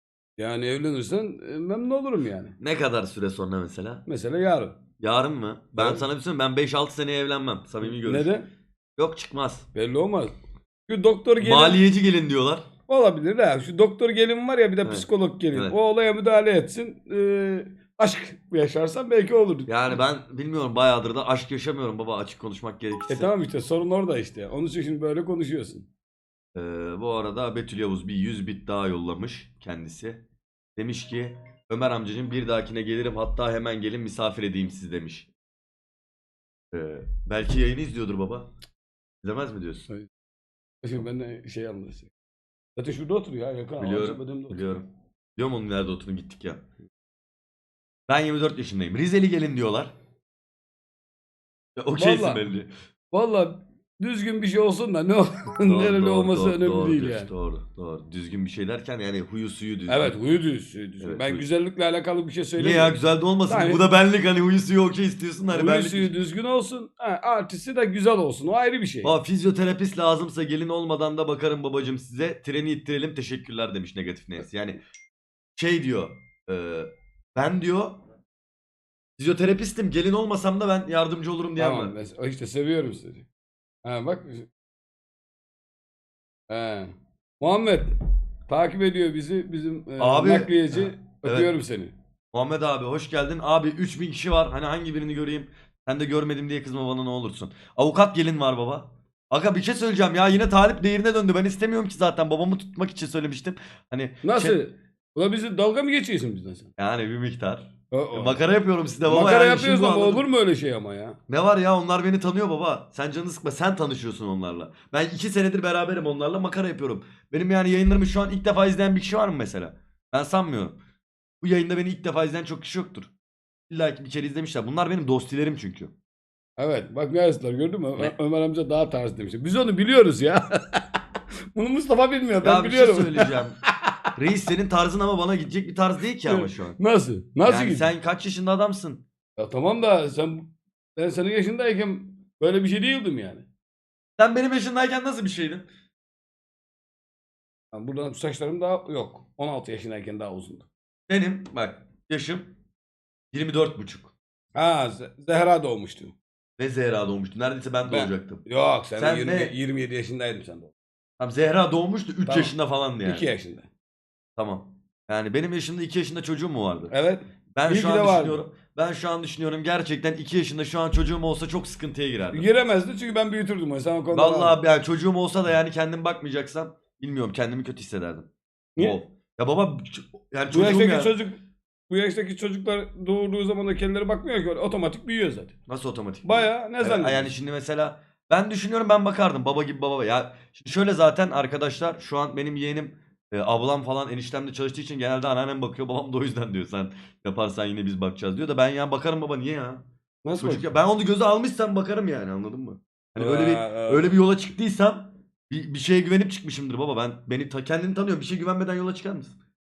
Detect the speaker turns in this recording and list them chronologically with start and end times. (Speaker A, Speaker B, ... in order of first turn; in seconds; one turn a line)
Speaker A: 0.4-2.5
Speaker B: 2.6-4.0
Speaker A: 4.1-4.8
Speaker B: 5.0-8.3
Speaker A: 5.8-6.0
Speaker A: 7.8-8.5
Speaker B: 9.0-9.7
Speaker A: 9.7-10.3
Speaker A: 10.9-11.8
Speaker B: 11.4-12.7
Speaker A: 12.9-19.8
Speaker B: 14.8-15.8
Speaker B: 19.7-23.3
Speaker A: 23.1-25.9
Speaker B: 26.6-30.2
Speaker B: 30.8-35.3
Speaker B: 36.7-38.5
Speaker B: 39.2-39.9
Speaker A: 40.8-42.1
Speaker A: 42.8-44.6
Speaker B: 43.8-46.6
Speaker B: 48.1-49.9
Speaker B: 51.8-52.7
Speaker A: 51.9-52.4
Speaker A: 53.1-57.3
Speaker B: 55.6-60.1
Speaker A: 59.9-63.8
Speaker B: 61.0-61.4
Speaker B: 62.6-66.1
Speaker A: 65.5-69.1
Speaker B: 69.0-74.8
Speaker B: 75.6-78.0
Speaker B: 79.2-81.9
Speaker A: 81.6-83.3
Speaker A: 83.8-84.5
Speaker A: 86.5-91.9
Speaker B: 90.0-91.5
Speaker B: 92.3-104.6
Speaker A: 104.2-106.7
Speaker B: 106.8-110.2
Speaker A: 107.9-108.4
Speaker A: 109.0-111.2
Speaker B: 111.3-120.8
Speaker B: 121.4-123.1
Speaker B: 123.7-125.9
Speaker A: 126.6-131.0
Speaker A: 131.5-133.7
Speaker B: 132.4-133.6
Speaker B: 134.2-136.8
Speaker A: 136.3-137.9
Speaker B: 137.4-139.0
Speaker A: 139.4-143.4
Speaker B: 144.2-145.7
Speaker A: 147.7-150.7
Speaker B: 151.1-152.5
Speaker B: 153.3-154.1
Speaker A: 154.6-156.1
Speaker B: 156.6-158.4
Speaker A: 157.9-160.7
Speaker B: 159.0-159.6
Speaker B: 161.2-163.3
Speaker A: 162.3-163.7
Speaker B: 164.4-166.9
Speaker A: 166.9-168.4
Speaker B: 167.6-172.4
Speaker A: 172.3-174.6
Speaker B: 174.1-181.2
Speaker A: 180.5-181.4
Speaker A: 181.9-185.5
Speaker B: 185.7-199.8
Speaker A: 186.2-187.3
Speaker A: 200.2-200.7
Speaker B: 200.4-209.4
Speaker A: 203.2-204.1